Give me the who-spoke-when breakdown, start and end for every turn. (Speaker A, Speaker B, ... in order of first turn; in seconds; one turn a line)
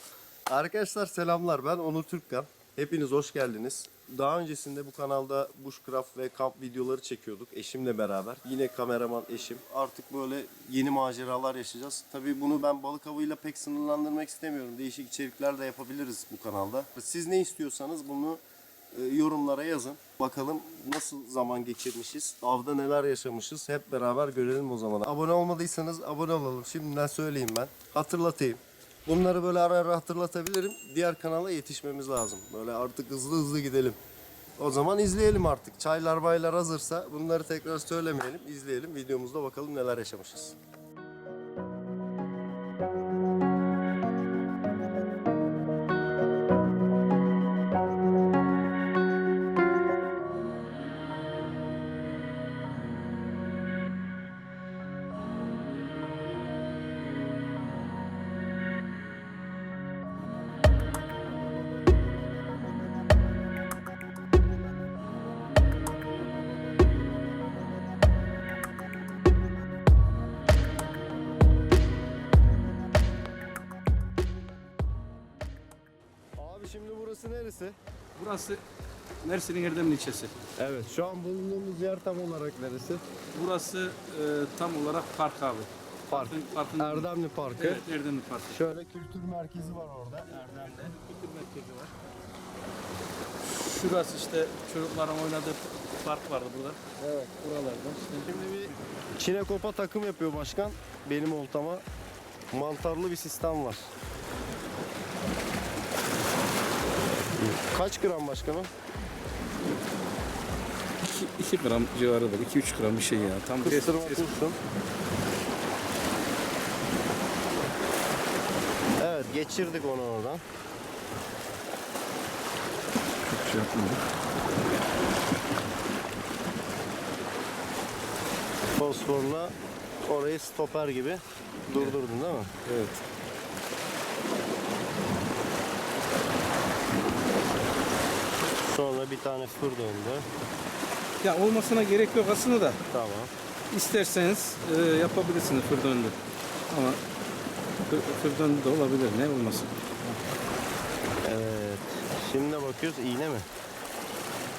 Speaker A: 0.5-18.4
Speaker A: 18.9-34.0
Speaker A: 34.6-40.6
Speaker A: 76.4-77.8
Speaker B: 78.2-78.6
Speaker B: 79.2-80.3
Speaker A: 80.6-83.0
Speaker B: 83.3-88.6
Speaker A: 86.1-87.8
Speaker A: 88.5-90.4
Speaker B: 90.3-91.9
Speaker B: 93.6-98.4
Speaker A: 97.0-97.3
Speaker A: 98.2-101.8
Speaker A: 102.5-103.9
Speaker A: 107.3-108.7
Speaker B: 111.0-114.3
Speaker A: 113.6-114.6
Speaker A: 119.0-120.4
Speaker B: 123.2-124.0
Speaker A: 128.7-132.5
Speaker B: 132.6-133.0
Speaker A: 138.6-140.3
Speaker B: 141.2-142.8
Speaker A: 142.9-143.3
Speaker B: 143.7-146.1
Speaker B: 146.7-147.0
Speaker B: 147.9-150.1
Speaker A: 151.2-153.5